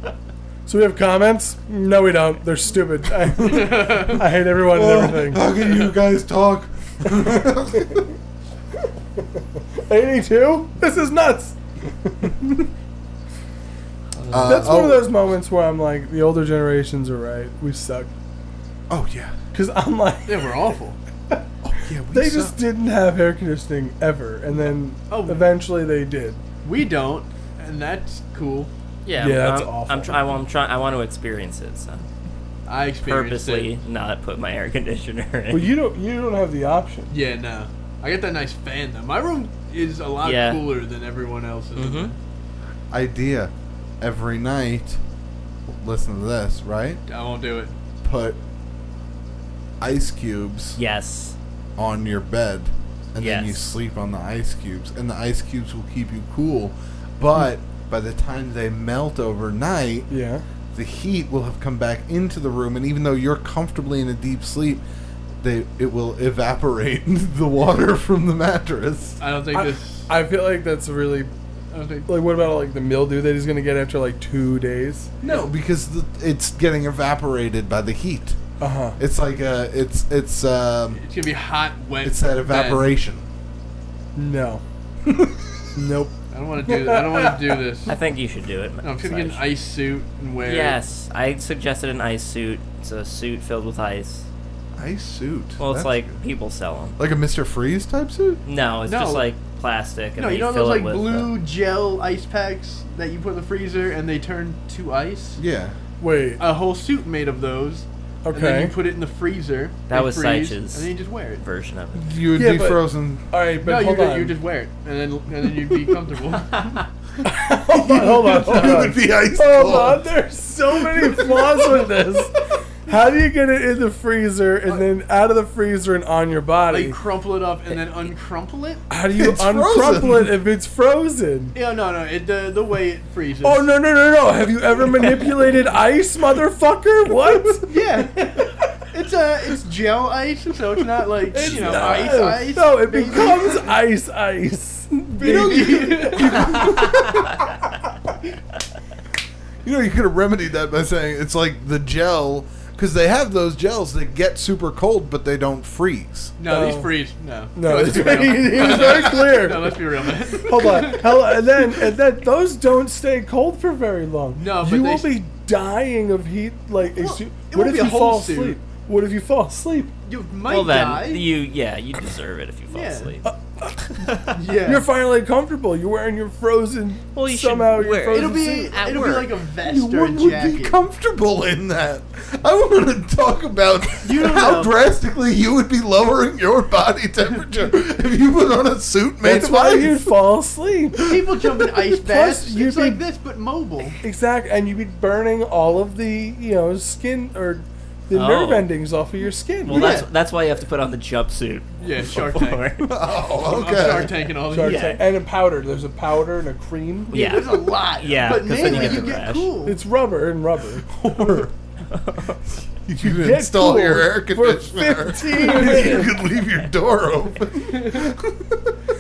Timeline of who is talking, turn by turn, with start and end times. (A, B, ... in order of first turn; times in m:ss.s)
0:00.6-0:05.5 A
0:03.4-0:04.2 B
0:04.7-0:08.1 C
0:07.4-0:08.0 A
0:09.2-0:12.5 A
0:14.2-0:14.8 D
0:14.3-0:15.1 C
0:14.4-0:18.1 A
0:18.9-0:19.3 C
0:19.5-0:20.6 A
0:20.3-0:21.0 B
0:21.6-0:22.6 C
0:22.1-0:26.4 A
0:25.1-0:25.4 B
0:26.6-0:28.7 B
0:29.0-0:32.0 D
0:29.2-0:30.2 A
0:32.7-0:33.7 B
0:33.0-0:35.7 D
0:35.5-0:37.1 A
0:37.1-0:42.2 B
0:40.2-0:40.6 D
0:41.8-0:42.1 D
0:42.9-0:45.0 C
0:45.8-0:47.0 C
0:47.1-0:47.7 B
0:48.0-0:48.4 C
0:49.8-0:50.8 C
0:50.8-0:51.4 D
0:51.8-1:00.1 C
0:53.2-0:53.7 D
1:00.1-1:00.4 A
1:00.7-1:04.8 C
1:05.4-1:09.2 C
1:09.2-1:10.1 B
1:09.5-1:11.3 A
1:11.7-1:12.1 B
1:12.0-1:15.1 A
1:15.2-1:18.4 C
1:18.6-1:19.0 A
1:19.0-1:21.0 C
1:20.9-1:22.9 B
1:22.0-1:23.2 C
1:24.2-1:24.6 A
1:25.0-1:25.5 C
1:25.7-1:27.5 A
1:26.3-1:28.0 B
1:27.9-1:29.4 D
1:28.8-1:30.8 B
1:30.4-1:34.3 D
1:34.8-1:36.1 C
1:35.6-1:37.0 D
1:37.0-1:38.4 C
1:38.4-1:41.3 D
1:38.9-1:39.2 B
1:40.2-1:45.4 B
1:45.4-1:45.8 C
1:46.0-1:46.4 A
1:46.4-1:51.4 B
1:48.2-1:48.7 A
1:49.9-1:52.0 D
1:51.9-1:53.2 C
1:52.3-1:54.4 A
1:53.6-1:56.8 B
1:57.2-2:02.3 A
1:57.7-2:00.1 C
2:00.9-2:01.4 C
2:02.8-2:07.0 A
2:06.7-2:08.8 B
2:08.9-2:11.5 A
2:09.1-2:10.4 C
2:11.5-2:13.7 B
2:13.4-2:18.2 A
2:17.6-2:23.7 B
2:21.3-2:27.0 A
2:25.2-2:26.7 B
2:25.2-2:27.3 C
2:29.6-2:36.3 C
2:36.4-2:41.3 B
2:36.5-2:36.9 A
2:37.5-2:49.9 A
2:44.4-2:45.1 B
2:46.9-2:48.6 B
2:50.0-2:51.3 B
2:50.5-2:53.2 D
2:52.7-2:53.2 B
2:53.2-2:54.1 A
2:54.0-2:54.3 D
2:54.3-2:54.9 B
2:54.6-2:58.8 A
2:57.1-2:59.4 D
2:58.1-3:00.8 B
2:59.6-3:10.2 C
3:04.0-3:04.7 B
3:09.2-3:11.1 A
3:11.0-3:14.0 B
3:11.9-3:13.0 A
3:14.0-3:20.0 A
3:18.1-3:18.7 D
3:19.6-3:22.9 D
3:19.7-3:20.1 B
3:21.8-3:25.0 B
3:22.8-3:24.1 C
3:24.4-3:27.2 A
3:24.6-3:25.0 D
3:27.1-3:29.5 D
3:27.1-3:29.8 B
3:28.6-3:30.9 A
3:30.9-3:31.5 C
3:31.9-3:32.4 D
3:32.6-3:38.7 C
3:33.0-3:36.1 A
3:37.7-3:38.0 B